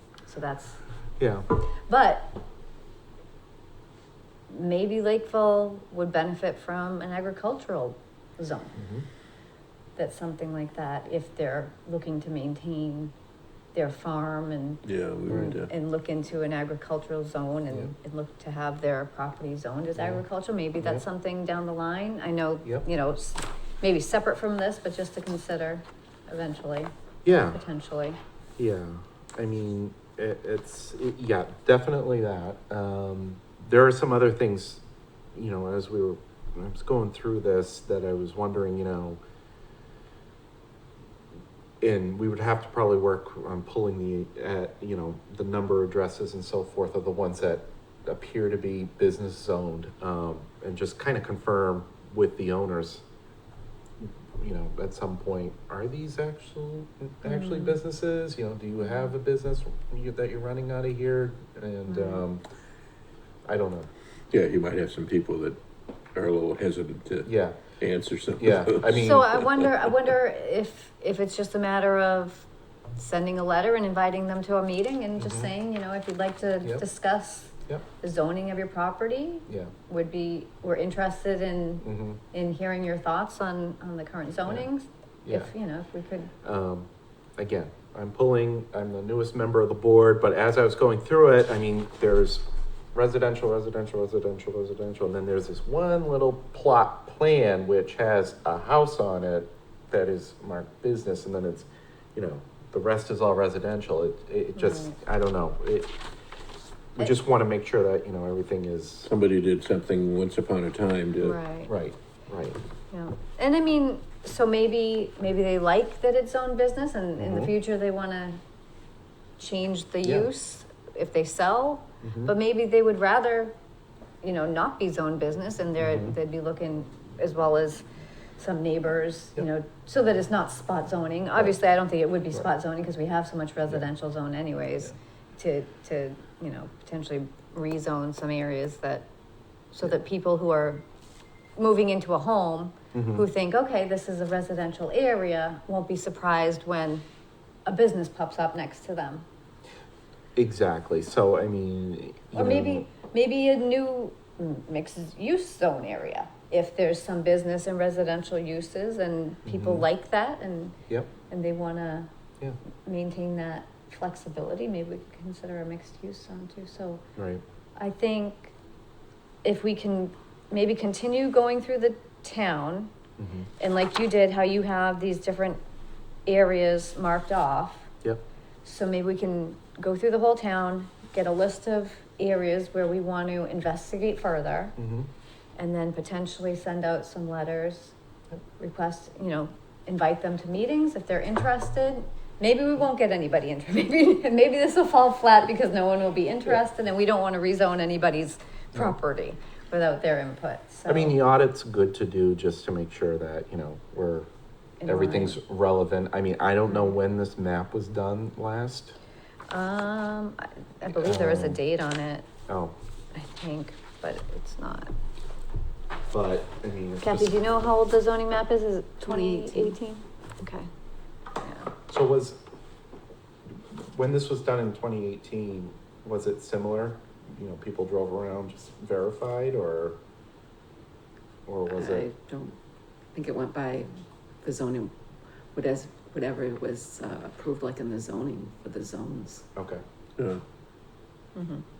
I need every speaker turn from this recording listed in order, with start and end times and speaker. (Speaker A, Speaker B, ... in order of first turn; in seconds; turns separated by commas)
Speaker A: 0.3-0.8, Speaker B: 1.2-1.4, Speaker A: 1.9-2.4, Speaker A: 4.5-8.8, Speaker B: 8.8-9.0, Speaker A: 9.9-13.1, Speaker A: 13.7-26.9, Speaker C: 14.8-15.7, Speaker B: 15.3-15.6, Speaker B: 19.9-20.2, Speaker B: 27.2-27.6, Speaker A: 27.5-28.2, Speaker B: 28.6-34.8, Speaker B: 35.3-39.2, Speaker B: 41.8-53.0, Speaker B: 54.0-62.4, Speaker A: 57.2-57.8, Speaker A: 61.9-62.2, Speaker B: 63.5-63.9, Speaker C: 64.3-65.6, Speaker C: 66.1-69.7, Speaker B: 67.2-67.6, Speaker B: 68.4-69.3, Speaker A: 68.9-86.3, Speaker B: 75.2-75.5, Speaker B: 81.8-82.2, Speaker B: 85.2-85.5, Speaker B: 86.4-106.0, Speaker A: 104.5-105.0, Speaker B: 107.0-109.1, Speaker C: 109.0-111.4, Speaker A: 111.2-111.7, Speaker B: 111.7-112.6, Speaker A: 112.9-118.4, Speaker B: 117.2-117.5, Speaker A: 119.4-123.5, Speaker B: 120.0-120.3, Speaker B: 122.0-122.3, Speaker A: 124.2-127.8, Speaker B: 125.8-126.1, Speaker A: 128.4-139.1, Speaker A: 139.7-140.8, Speaker A: 141.6-147.0, Speaker B: 142.9-143.2, Speaker A: 147.7-149.2, Speaker B: 150.3-152.9, Speaker A: 152.3-160.8, Speaker B: 159.4-159.8, Speaker A: 161.3-162.1, Speaker A: 162.8-167.0, Speaker B: 167.2-167.4, Speaker A: 167.8-168.5, Speaker A: 169.4-172.9, Speaker B: 173.2-173.5, Speaker A: 173.6-175.6, Speaker A: 176.2-177.9, Speaker A: 178.6-184.8, Speaker B: 184.8-185.1, Speaker A: 185.6-187.9, Speaker A: 188.6-201.2, Speaker B: 200.9-204.3, Speaker A: 204.8-205.4, Speaker B: 204.8-208.9, Speaker A: 206.7-206.9, Speaker A: 209.5-212.3, Speaker B: 211.0-211.6, Speaker B: 212.5-212.7, Speaker A: 213.1-214.9, Speaker B: 216.1-217.4, Speaker A: 217.0-220.7, Speaker D: 219.0-219.7, Speaker A: 221.4-221.7, Speaker B: 221.9-222.4, Speaker B: 223.7-230.0, Speaker B: 231.5-232.1, Speaker D: 231.7-232.6, Speaker D: 233.1-234.9, Speaker D: 235.5-239.4, Speaker B: 239.6-239.8, Speaker C: 240.2-240.4, Speaker A: 241.3-241.6